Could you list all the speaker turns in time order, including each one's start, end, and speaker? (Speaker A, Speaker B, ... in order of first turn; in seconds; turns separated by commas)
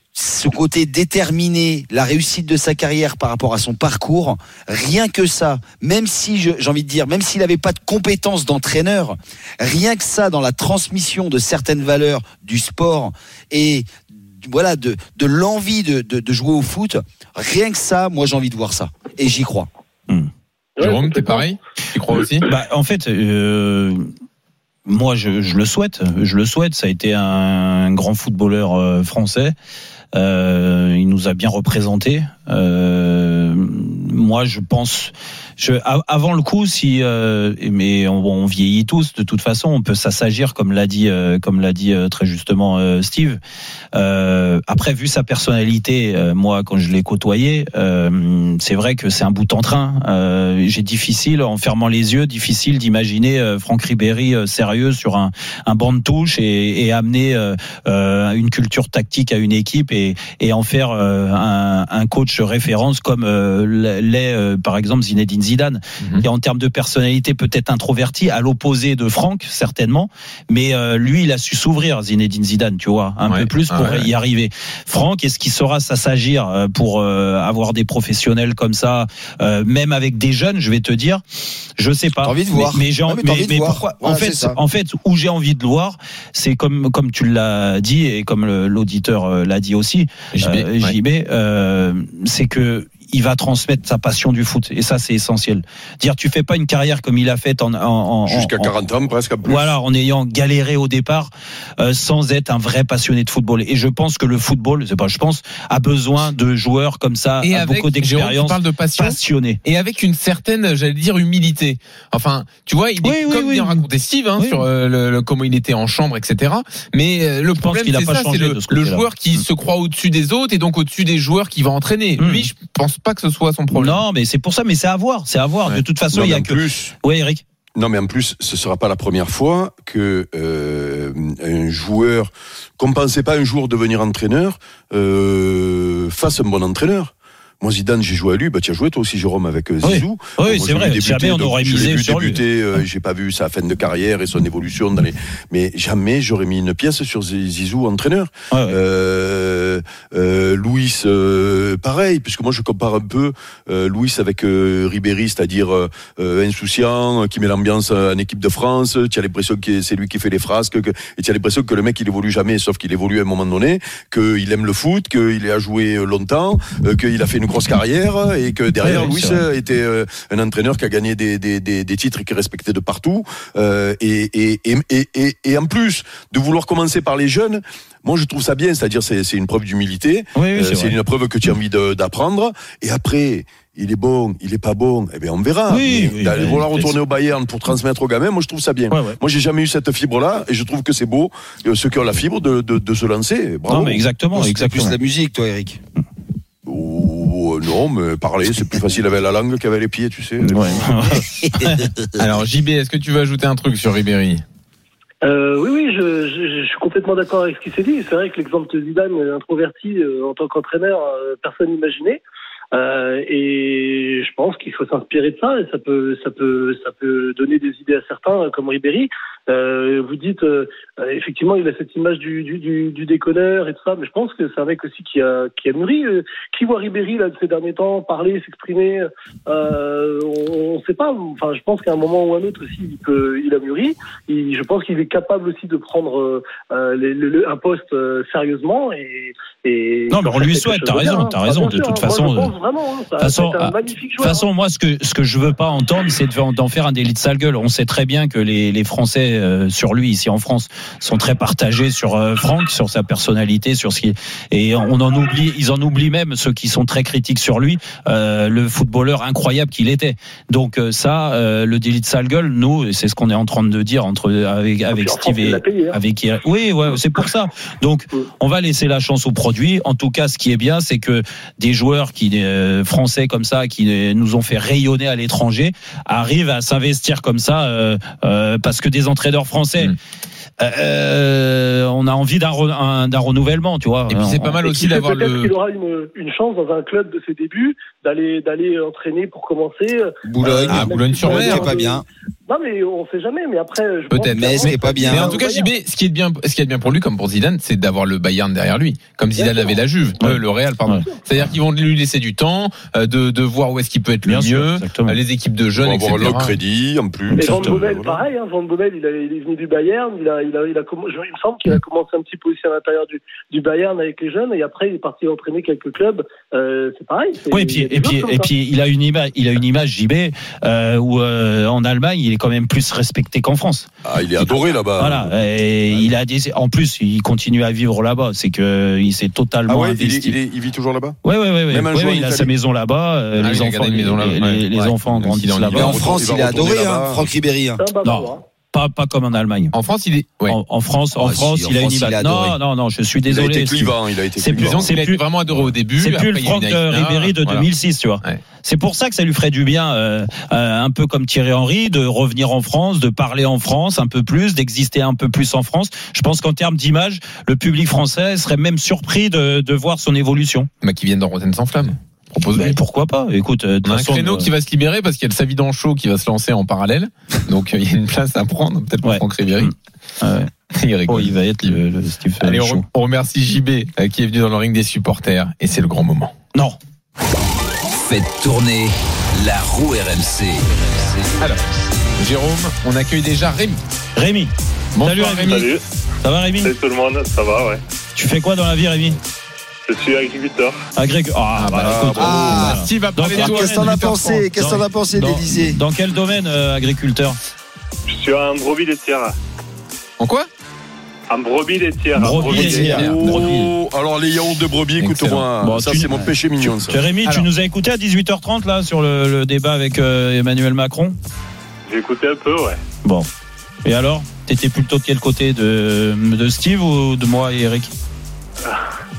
Speaker A: 0.1-19.7, Speaker B: 20.8-21.5, Speaker C: 20.8-22.4, Speaker D: 22.4-24.1, Speaker D: 24.9-29.5, Speaker D: 30.1-43.4, Speaker D: 43.9-81.2, Speaker C: 66.0-66.2, Speaker C: 73.3-74.1, Speaker D: 81.8-98.7, Speaker A: 82.2-84.6, Speaker C: 90.3-90.9, Speaker E: 98.3-99.7, Speaker D: 99.4-109.6, Speaker C: 107.4-124.0, Speaker D: 113.0-113.8, Speaker D: 114.4-114.6, Speaker D: 117.6-119.4, Speaker D: 122.2-122.5, Speaker D: 123.7-127.4, Speaker E: 126.1-126.9, Speaker E: 127.8-194.0, Speaker D: 139.8-142.4, Speaker D: 148.5-148.8, Speaker D: 168.8-169.4, Speaker D: 180.3-181.0, Speaker D: 185.7-187.0, Speaker D: 188.9-189.2, Speaker D: 193.7-195.0, Speaker A: 194.3-195.8, Speaker E: 196.7-200.8, Speaker D: 200.4-201.9, Speaker A: 201.5-201.9, Speaker C: 202.2-204.4, Speaker B: 205.2-212.2, Speaker B: 212.7-244.4, Speaker D: 240.1-242.5, Speaker D: 243.2-279.9, Speaker B: 264.9-266.0, Speaker D: 280.6-284.6, Speaker C: 284.1-285.5, Speaker B: 284.6-295.7, Speaker A: 290.2-292.0, Speaker C: 290.6-291.7, Speaker C: 294.1-306.6, Speaker A: 294.3-295.4, Speaker B: 299.4-299.8, Speaker D: 300.2-301.0, Speaker D: 304.2-305.2, Speaker E: 305.8-308.2, Speaker B: 307.3-318.5, Speaker D: 307.4-307.9, Speaker D: 317.5-323.9, Speaker E: 324.0-325.3, Speaker D: 324.4-330.4, Speaker E: 329.7-332.5, Speaker D: 331.2-336.0, Speaker C: 333.4-336.1, Speaker A: 335.7-337.8, Speaker E: 335.8-337.3, Speaker B: 337.8-338.4, Speaker D: 338.0-339.7, Speaker C: 339.7-340.6, Speaker D: 340.5-345.2, Speaker A: 341.2-342.6, Speaker E: 343.3-344.9, Speaker C: 344.6-347.6, Speaker D: 346.0-360.7, Speaker C: 360.8-362.8, Speaker D: 362.5-364.5, Speaker C: 363.8-369.7, Speaker D: 369.0-370.5, Speaker C: 370.7-371.8, Speaker D: 371.1-372.8, Speaker C: 372.4-376.3, Speaker F: 377.9-381.9, Speaker C: 381.4-383.8, Speaker D: 384.1-384.5, Speaker C: 384.9-385.7, Speaker D: 385.0-385.6, Speaker G: 385.4-385.8, Speaker D: 386.2-386.7, Speaker G: 386.6-387.8, Speaker D: 388.1-389.2, Speaker G: 389.9-390.8, Speaker D: 390.9-397.4, Speaker C: 391.6-394.2, Speaker A: 392.1-395.8, Speaker G: 398.1-399.3, Speaker C: 400.2-400.5, Speaker G: 401.3-402.9, Speaker D: 402.1-403.7, Speaker E: 402.3-407.0, Speaker C: 402.5-403.5, Speaker C: 405.0-405.5, Speaker D: 405.6-411.1, Speaker G: 411.9-412.8, Speaker D: 413.8-417.9